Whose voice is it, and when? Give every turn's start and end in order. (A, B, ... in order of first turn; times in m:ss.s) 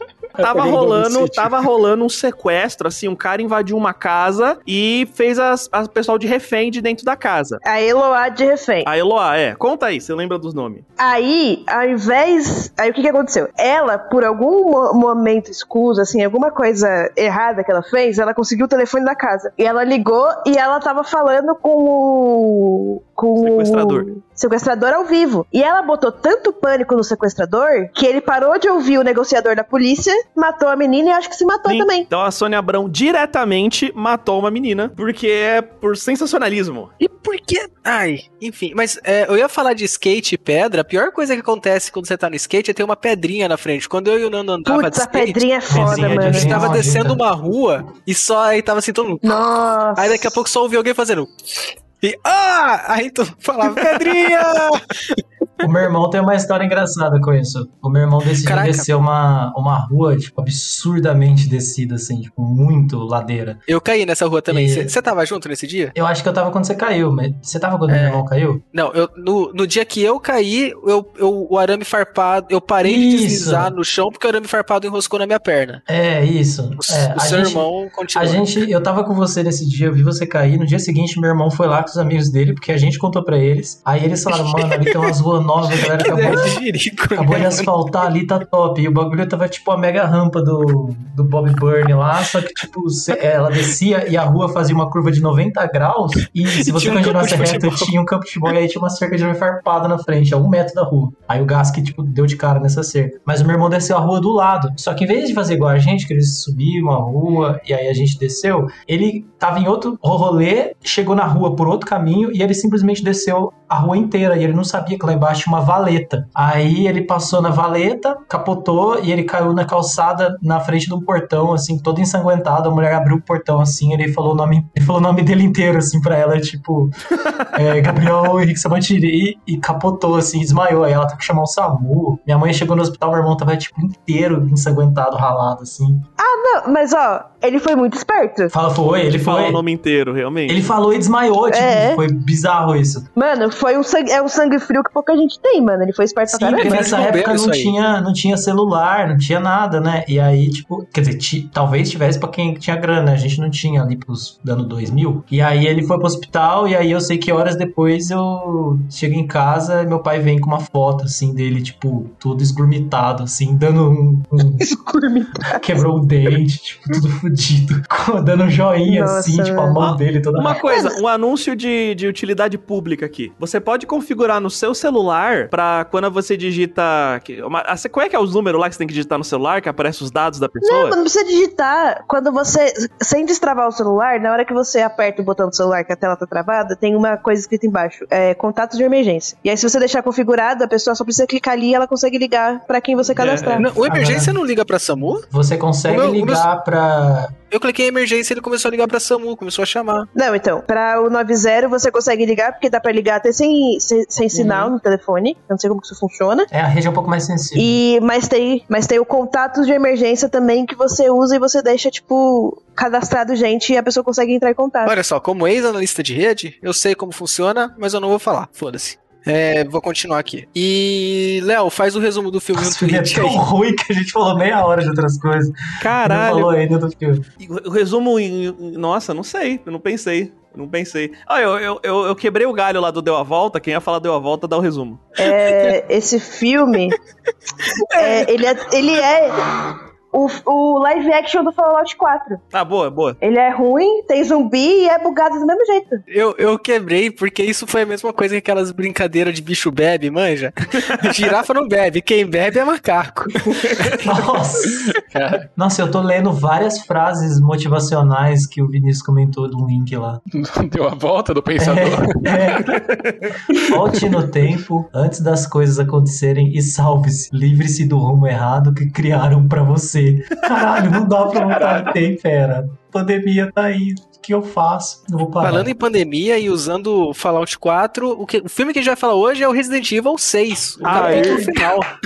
0:00.4-0:01.6 A
0:00.4-0:07.6 B
0:07.6-0:08.9 C
0:08.8-0:10.8 B
0:11.0-0:32.1 C
0:23.4-0:24.1 B
0:31.6-0:36.9 B
0:37.0-0:55.2 D
0:44.7-0:46.6 C
0:45.7-0:47.2 E
0:45.7-0:46.6 B
0:49.2-0:50.4 C
0:55.6-1:03.6 E
0:58.4-0:58.9 D
1:03.7-1:05.9 D
1:04.5-1:04.9 E
1:05.9-1:08.6 E
1:07.9-1:15.8 D
1:12.8-1:13.7 E
1:15.9-1:26.6 E
1:16.8-1:18.5 D
1:24.3-1:25.1 D
1:25.8-1:27.7 D
1:27.1-2:06.9 E
1:36.5-1:37.9 D
2:07.5-2:16.0 E
2:16.2-2:18.5 C
2:18.5-2:19.6 E
2:19.2-2:20.6 B
2:20.5-2:23.1 E
2:21.5-2:22.0 C
2:23.2-2:27.0 C
2:26.3-2:27.7 D
2:26.5-2:44.7 E
2:44.6-2:45.8 C
2:45.5-2:50.6 E
2:48.8-2:49.8 C
2:49.8-3:01.0 B
2:50.5-2:51.0 C
3:00.6-3:13.7 C
3:13.2-3:13.6 B
3:13.6-3:15.2 D
3:13.7-3:14.4 E
3:15.2-3:17.3 E
3:15.8-3:16.4 D
3:17.5-3:20.1 D
3:20.1-3:26.5 C
3:24.4-3:24.7 B
3:26.5-3:27.8 E
3:27.6-3:35.0 C
3:34.8-3:43.4 D
3:42.5-3:47.2 E
3:45.8-3:46.5 B
3:47.4-3:55.2 B
3:55.2-3:57.0 C
3:57.6-3:58.3 D
3:57.9-4:02.4 C
4:02.5-4:03.2 B
4:03.2-4:06.0 C
4:06.1-4:14.0 D
4:14.0-4:14.9 E
4:14.9-4:15.5 A
4:15.6-4:20.2 E
4:20.3-4:22.9 A
4:21.6-4:22.8 E
4:23.5-4:24.0 A
4:23.5-4:35.7 E
4:35.4-4:41.9 D
4:40.8-4:41.6 E
4:40.8-4:41.5 B